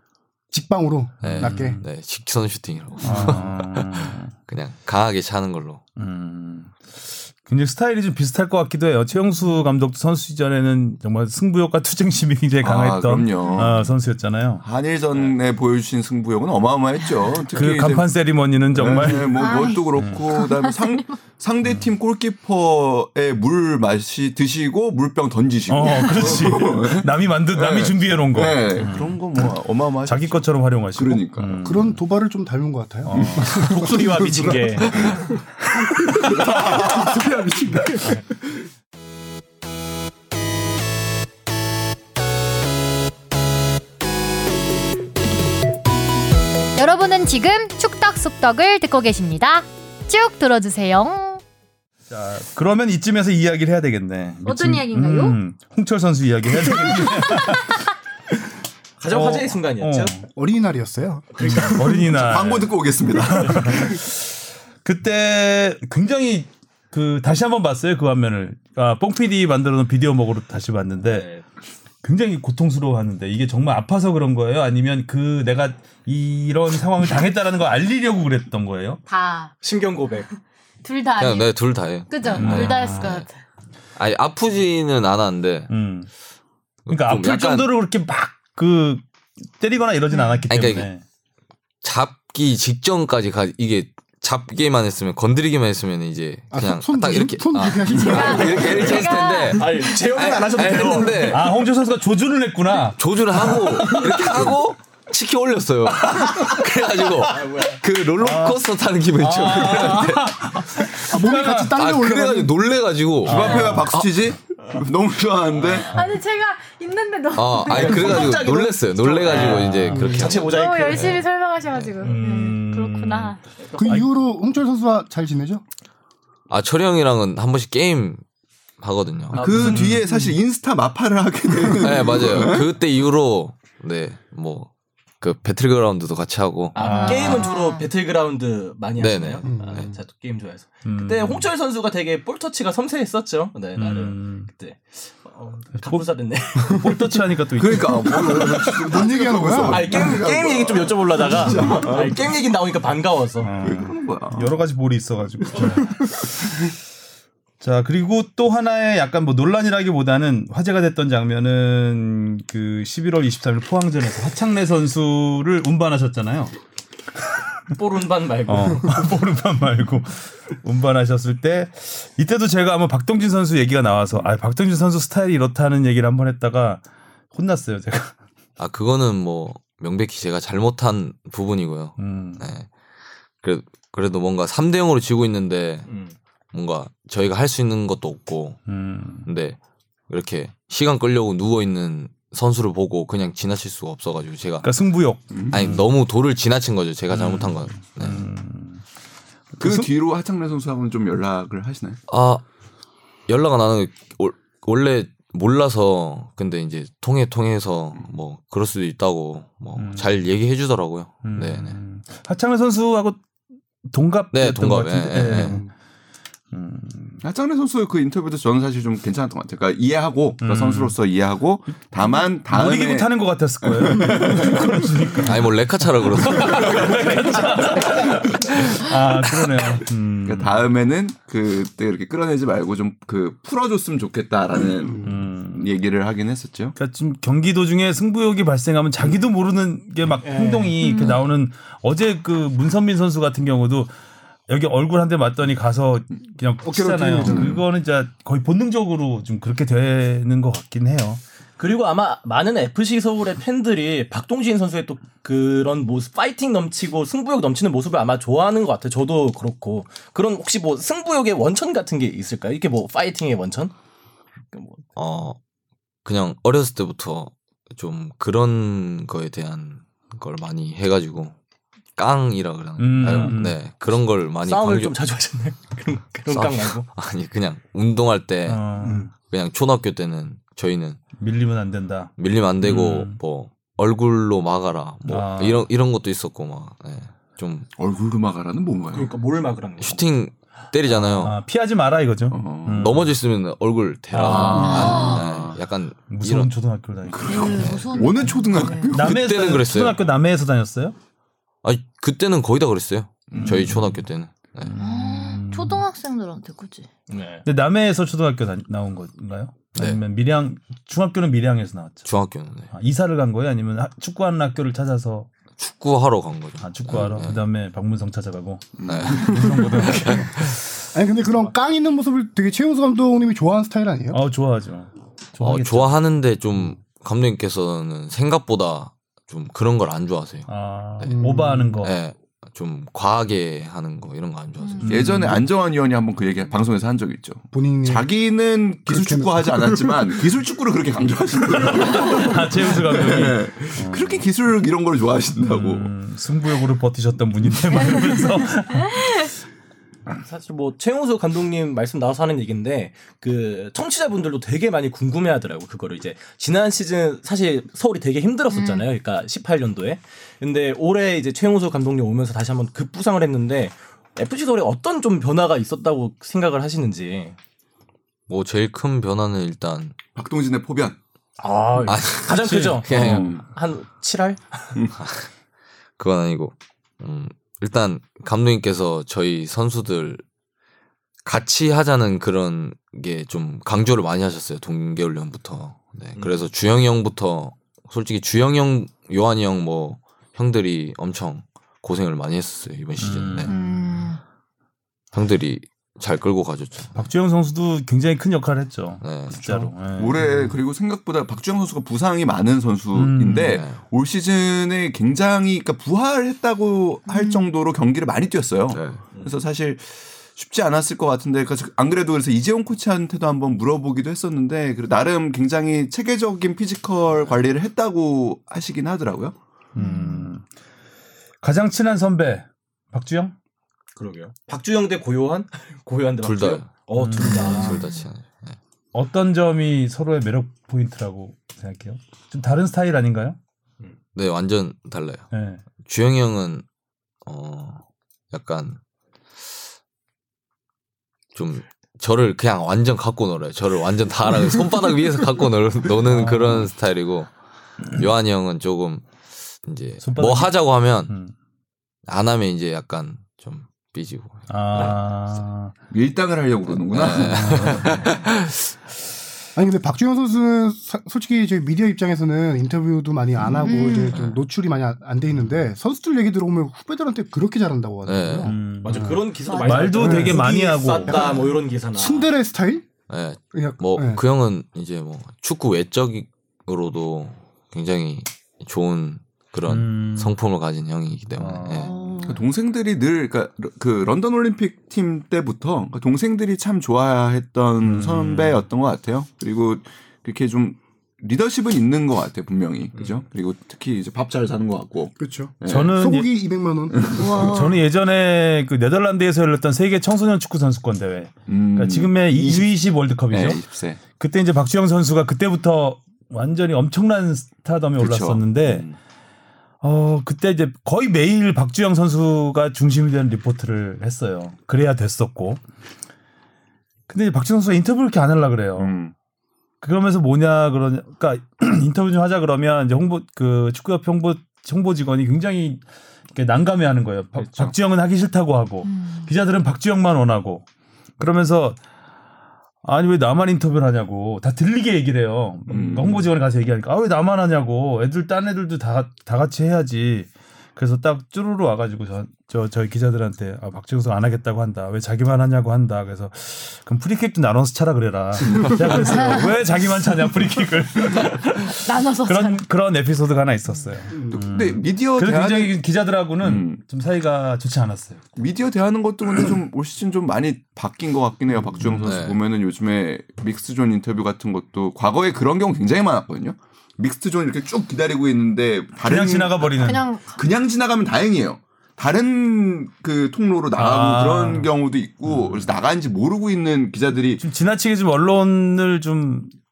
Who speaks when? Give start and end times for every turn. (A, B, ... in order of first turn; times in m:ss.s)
0:00.5-0:01.8 A
0:01.2-0:05.8 B
0:01.3-0:01.8 C
0:03.0-0:04.3 C
0:06.0-0:14.6 C
0:12.6-0:13.9 D
0:14.6-0:18.1 D
0:17.5-0:20.2 C
0:18.7-0:31.6 D
0:19.3-0:21.1 E
0:25.7-0:29.2 C
0:30.0-0:32.0 C
0:31.6-0:38.2 A
0:33.1-0:33.8 C
0:33.1-0:33.5 D
0:33.5-0:35.2 F
0:36.2-0:38.0 D
0:46.8-0:51.4 E
0:52.1-0:57.8 C
0:54.4-0:55.4 E
0:59.0-1:00.1 F
0:59.1-1:00.2 C
1:00.3-1:01.6 A
1:01.3-1:02.1 F
1:01.4-1:11.3 C
1:02.0-1:04.0 D
1:11.0-1:11.4 F
1:12.0-1:19.0 C
1:19.1-1:19.5 E
1:19.6-1:20.3 F
1:20.8-1:21.5 E
1:21.2-1:23.2 B
1:22.1-1:23.3 E
1:22.3-1:23.1 C
1:24.0-1:25.7 B
1:25.7-1:26.1 C
1:26.8-1:27.7 B
1:26.9-1:29.0 C
1:29.6-1:31.0 C
1:30.5-1:30.9 B
1:31.8-1:41.6 B
1:36.5-1:39.1 A
1:37.9-1:39.7 E
1:39.5-1:41.4 F
1:41.3-1:44.5 C
1:42.8-1:51.1 B
1:47.2-1:47.8 F
1:48.2-1:51.8 C
1:51.0-1:52.6 A
1:51.7-1:54.1 B
1:53.2-1:55.9 D
1:53.3-1:53.9 C
1:55.7-1:58.4 E
1:57.3-2:01.2 B
1:57.7-2:01.2 F
1:59.3-2:00.2 C
1:59.9-2:00.3 A
2:00.3-2:03.4 E
2:02.0-2:04.1 C
2:03.8-2:05.6 A
2:06.5-2:08.2 B
2:08.8-2:09.6 B
2:09.3-2:10.0 F
2:09.3-2:12.7 D
2:09.6-2:10.0 C
2:11.7-2:14.7 B
2:15.2-2:17.4 B
2:16.7-2:27.2 F
2:16.8-2:17.5 C
2:16.8-2:17.8 E
2:19.0-2:19.9 B
2:19.4-2:19.9 A
2:20.8-2:21.5 C
2:23.8-2:24.5 C
2:25.8-2:26.0 C
2:26.6-2:28.5 C
2:27.6-2:32.3 D
2:28.3-2:30.2 A
2:29.6-2:33.5 F
2:33.4-2:36.6 C
2:33.6-2:34.6 D
2:37.6-2:46.5 C
2:47.7-2:49.1 F
2:48.4-2:58.2 C
2:58.6-3:02.7 B
3:02.0-3:02.5 C
3:03.4-3:05.9 B
3:05.9-3:06.2 F
3:06.5-3:08.6 B
3:08.6-3:09.3 C
3:09.2-3:09.6 B
3:10.1-3:14.7 B
3:14.6-3:15.8 C
3:15.3-3:15.6 D
3:15.5-3:18.3 B
3:17.1-3:18.8 C
3:19.5-3:19.9 C
3:19.6-3:22.0 D
3:22.1-3:22.4 B
3:23.3-3:31.8 B
3:29.8-3:30.1 C
3:31.2-3:33.2 C
3:33.9-3:35.7 C
3:34.3-3:35.6 B
3:35.3-3:35.7 A
3:36.5-3:37.2 C
3:37.2-3:45.2 D
3:40.4-3:41.0 C
3:42.0-3:50.6 C
3:45.2-3:47.0 B
3:46.4-3:47.5 D
3:47.1-3:47.6 F
3:50.2-3:56.8 D
3:55.0-3:55.7 C
3:56.8-4:03.9 C
4:00.2-4:00.8 F
4:00.8-4:01.2 E
4:04.5-4:11.2 C
4:06.6-4:07.6 A
4:07.2-4:07.6 D
4:11.6-4:23.7 F
4:24.5-4:24.8 F
4:25.0-4:25.4 B
4:26.0-4:31.3 B
4:32.0-4:35.0 B
4:32.8-4:33.6 C
4:33.1-4:33.3 F
4:34.4-4:36.9 F
4:36.3-4:41.0 B
4:38.5-4:39.1 C
4:41.2-4:43.2 C
4:42.2-4:47.7 B
4:45.0-4:45.7 C
4:47.8-4:49.1 D
4:48.9-4:50.0 F
4:49.8-4:51.4 B
4:51.1-4:53.1 C
4:52.3-4:53.0 D
4:52.7-4:56.5 B
4:54.1-4:55.2 C
4:54.2-4:54.6 F
4:54.4-4:55.2 E
4:55.2-4:55.4 D
4:56.1-4:57.6 C
4:57.1-4:59.4 D
4:57.2-4:58.9 E
4:57.6-4:58.0 B
4:58.9-5:00.9 C
4:59.0-5:00.0 B
5:01.6-5:04.8 B
5:03.3-5:03.7 D
5:03.4-5:04.0 C
5:04.6-5:05.8 C
5:04.8-5:06.9 E
5:07.1-5:07.4 F
5:07.4-5:12.0 C
5:09.7-5:10.0 B
5:12.0-5:12.7 B
5:12.7-5:15.3 C
5:15.6-5:17.4 B
5:16.6-5:20.5 C
5:18.8-5:20.0 D
5:18.8-5:20.5 B
5:20.9-5:24.2 A
5:24.1-5:25.9 C
5:25.4-5:35.1 B
5:30.5-5:31.9 C
5:31.1-5:31.9 A
5:34.8-5:35.5 C
5:34.8-5:45.9 D
5:37.5-5:38.1 A
5:38.8-5:40.3 A
5:41.6-5:44.2 C
5:45.4-5:49.3 C
5:50.2-6:07.4 F
5:58.5-5:58.8 E
6:08.3-6:10.0 B
6:10.1-6:11.0 D
6:11.4-6:14.8 F
6:11.8-6:13.4 B
6:12.9-6:13.4 D
6:15.0-6:15.3 B
6:16.0-6:20.2 B
6:21.2-6:33.5 B
6:26.2-6:26.5 F
6:33.0-6:34.0 C
6:33.4-6:34.2 E
6:35.1-6:37.1 B
6:36.9-6:40.6 C
6:39.0-6:39.7 B
6:39.9-6:59.3 D
6:42.9-6:43.5 C
6:43.5-6:43.8 B
6:47.1-6:47.5 E
6:48.7-6:49.0 B
6:59.7-7:00.4 C
6:59.8-7:00.3 E
7:01.4-7:03.3 C
7:04.0-7:07.8 F
7:06.2-7:08.6 B
7:06.9-7:07.8 C
7:07.7-7:08.0 E
7:08.9-7:13.4 C
7:14.1-7:15.3 B
7:15.3-7:15.6 C
7:15.8-7:16.6 B
7:17.2-7:18.8 B
7:21.3-7:27.3 B
7:26.0-7:26.7 C
7:27.9-7:29.0 B
7:29.6-7:31.1 B
7:30.0-7:31.3 C
7:32.1-7:34.9 B
7:34.5-7:35.7 C
7:35.9-7:38.0 D
7:36.8-7:38.7 B
7:37.3-7:38.1 C
7:39.6-7:49.2 A
7:43.4-7:43.8 D
7:43.6-7:44.2 E
7:44.1-7:44.4 B
7:48.0-7:48.6 B
7:48.4-7:51.3 C
7:48.8-7:52.3 F
7:49.4-7:50.0 E
7:50.0-7:50.4 A
7:51.1-7:51.5 B
7:51.9-7:52.9 A
7:53.1-8:01.9 B
7:53.5-7:54.2 A
7:59.7-8:00.4 C
8:01.4-8:01.9 C
8:01.7-8:02.4 E
8:02.2-8:16.0 D
8:07.8-8:08.6 C
8:15.2-8:17.4 A
8:15.6-8:16.3 C
8:16.9-8:17.6 D
8:17.1-8:17.8 E
8:17.4-8:28.9 C
8:21.5-8:22.7 D
8:23.3-8:24.0 D
8:28.0-8:29.0 D
8:29.8-8:35.6 C
8:37.1-8:38.9 C
8:38.8-8:39.1 D
8:39.8-8:45.8 C
8:46.3-8:50.6 C
8:48.8-8:49.3 E
8:51.2-8:51.8 C
8:52.8-9:18.3 C
8:55.7-8:56.3 D
9:09.1-9:09.4 E
9:11.6-9:12.6 E
9:14.1-9:14.4 A
9:14.3-9:15.8 D
9:16.4-9:16.8 D
9:18.4-9:29.7 D
9:21.8-9:22.0 C
9:22.0-9:22.4 B
9:29.0-9:30.1 C
9:29.7-9:30.4 E
9:30.3-9:37.4 D
9:33.7-9:34.7 C
9:35.3-9:35.7 C
9:37.4-9:39.5 C